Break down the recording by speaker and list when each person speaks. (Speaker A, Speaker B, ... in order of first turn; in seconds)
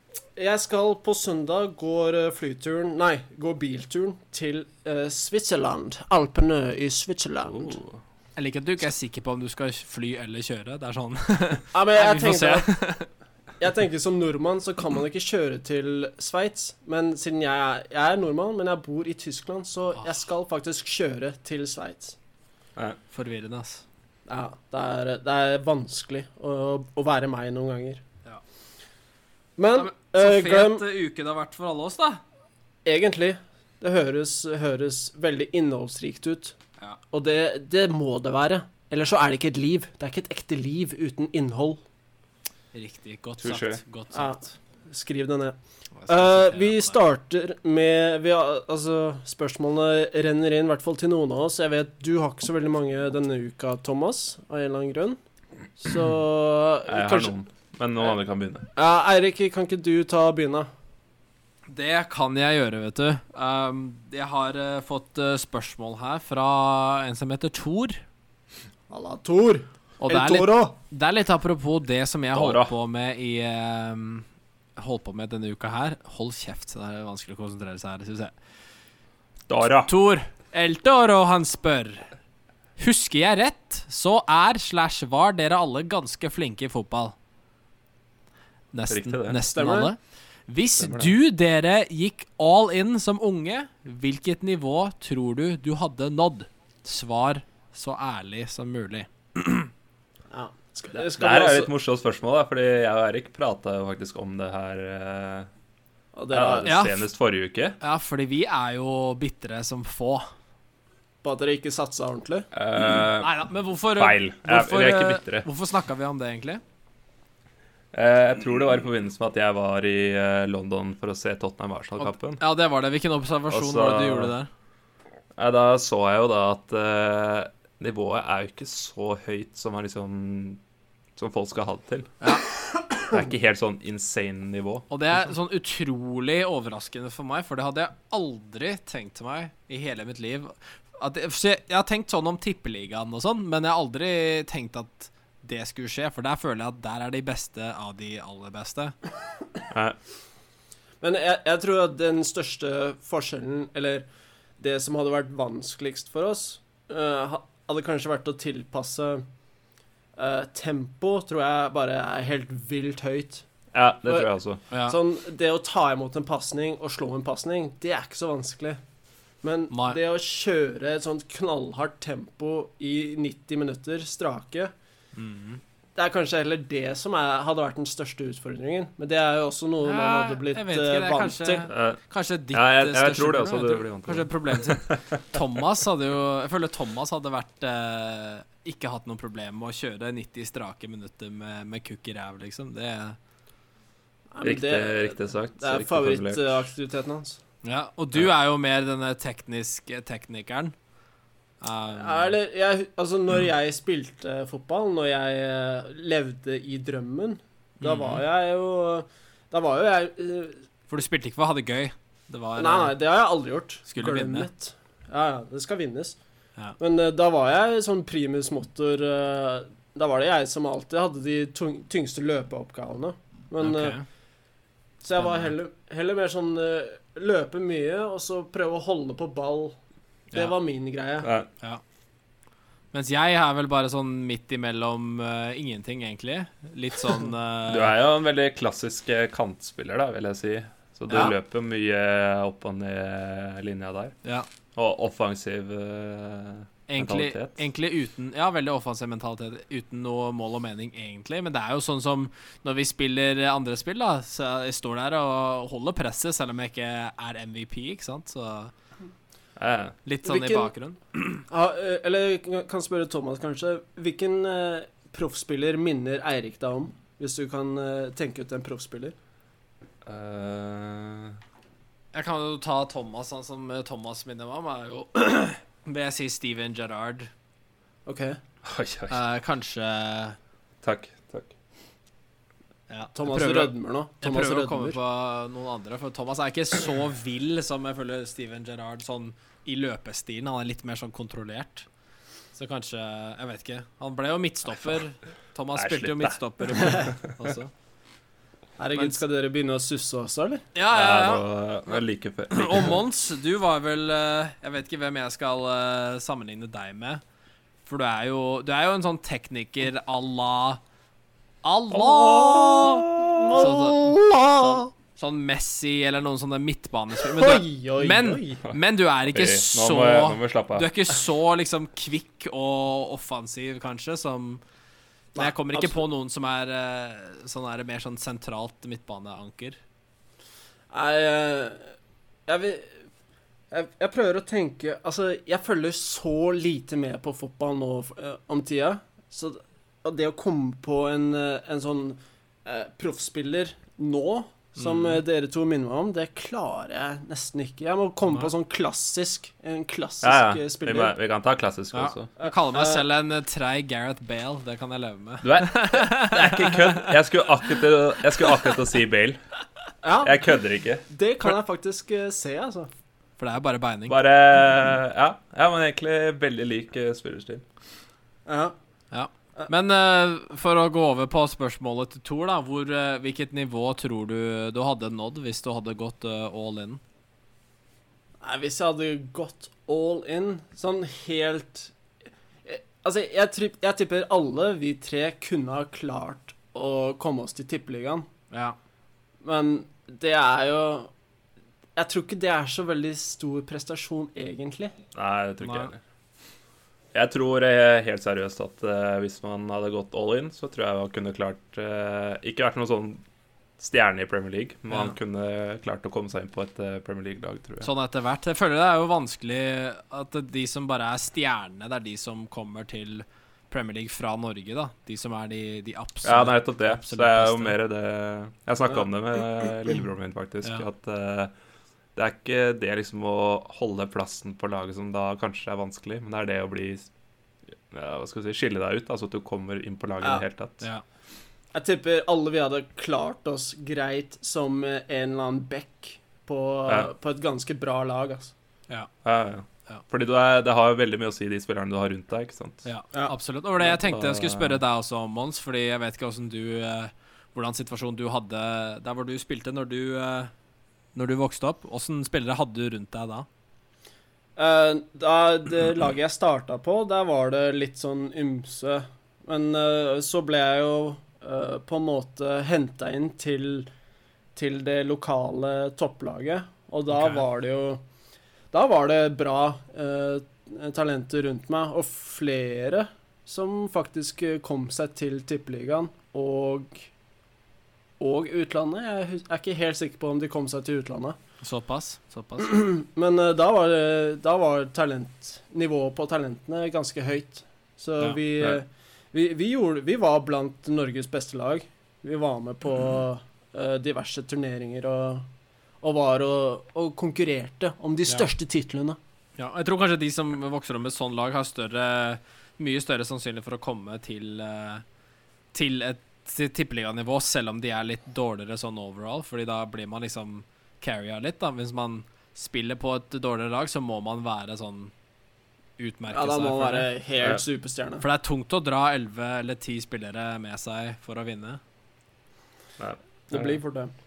Speaker A: 0.4-7.8, 11.7-12.7, 13.6-22.2, 24.3-28.0, 29.6-30.9, 32.9-36.5, 37.1-41.8, 44.1-55.2, 55.8-57.3, 58.8-60.7, 68.9-70.8, 89.5-89.9, 100.3-101.7, 106.2-106.8, 111.2-112.5, 151.0-154.1, 154.6-159.2, 160.2-163.4, 164.8-168.8, 169.4-174.7, 176.0-181.7, 194.3-197.4, 201.9-210.6, 212.6-216.2, 216.8-224.0, 225.0-229.8, 230.3-231.3, 260.2-260.7, 261.5-269.1, 278.1-278.4, 283.1-285.0, 298.8-300.6, 313.3-314.9, 317.2-318.6, 325.4-326.0, 330.9-331.9, 332.5-333.0, 333.7-351.1, 352.4-353.1, 360.0-360.4, 361.1-362.9, 368.5-368.8, 378.4-381.9, 382.7-388.3, 389.4-391.1, 392.0-394.9, 431.7-438.5, 454.6-463.9, 464.6-468.0, 468.7-477.1, 478.2-481.4, 482.6-495.5, 496.0-499.2, 516.3-518.2, 523.5-524.1
Speaker B: 7.5-8.0, 43.4-43.8, 56.9-58.7, 72.3-72.7, 79.5-79.9, 88.9-89.4, 90.8-91.2, 101.0-105.5, 106.3-107.8, 112.5-113.3, 114.0-115.5, 117.9-122.4, 123.5-124.3, 125.4-130.6, 131.2-132.1, 133.1-134.9, 149.7-150.0, 163.7-164.6, 181.7-182.0, 182.5-185.4, 194.4-196.6, 231.2-231.5, 237.7-244.2, 244.8-247.6, 259.6-259.9, 270.1-271.4, 278.6-279.2, 280.8-281.6, 295.8-297.2, 300.9-303.0, 311.9-313.4, 319.3-320.9, 350.2-352.3, 355.4-359.4, 360.2-361.0, 364.1-367.6, 395.1-396.0, 397.1-403.2, 403.8-407.9, 416.2-421.5, 422.2-427.1, 427.9-430.9, 439.2-442.9, 443.8-444.8, 523.0-523.8
Speaker C: 8.4-13.1, 23.1-23.8, 29.8-32.2, 42.7-44.5, 46.0-47.0, 61.7-68.0, 70.0-78.3, 79.9-82.1, 82.8-87.2, 88.7-90.0, 90.5-99.7, 106.7-107.0, 107.8-110.3, 113.2-116.6, 122.0-124.5, 132.2-132.5, 134.9-148.9, 164.7-165.0, 169.7-170.0, 175.2-175.6, 179.8-193.2, 197.6-200.8, 201.6-202.3, 207.8-208.2, 210.9-213.0, 213.9-214.5, 223.6-224.0, 225.2-225.5, 232.9-238.0, 246.9-258.7, 260.1-261.4, 272.1-277.3, 279.1-280.4, 282.9-291.9, 292.5-297.7, 300.8-302.0, 302.5-307.2, 307.9-310.8, 311.6-324.6, 325.4-329.8, 344.8-345.2, 351.9-357.2, 363.4-364.2, 369.1-377.0, 388.5-388.8, 395.6-395.9, 407.8-417.8, 442.9-450.5, 451.1-453.5, 467.1-467.4, 481.6-482.8, 499.6-505.0, 505.7-515.1, 516.0-517.1, 518.2-521.8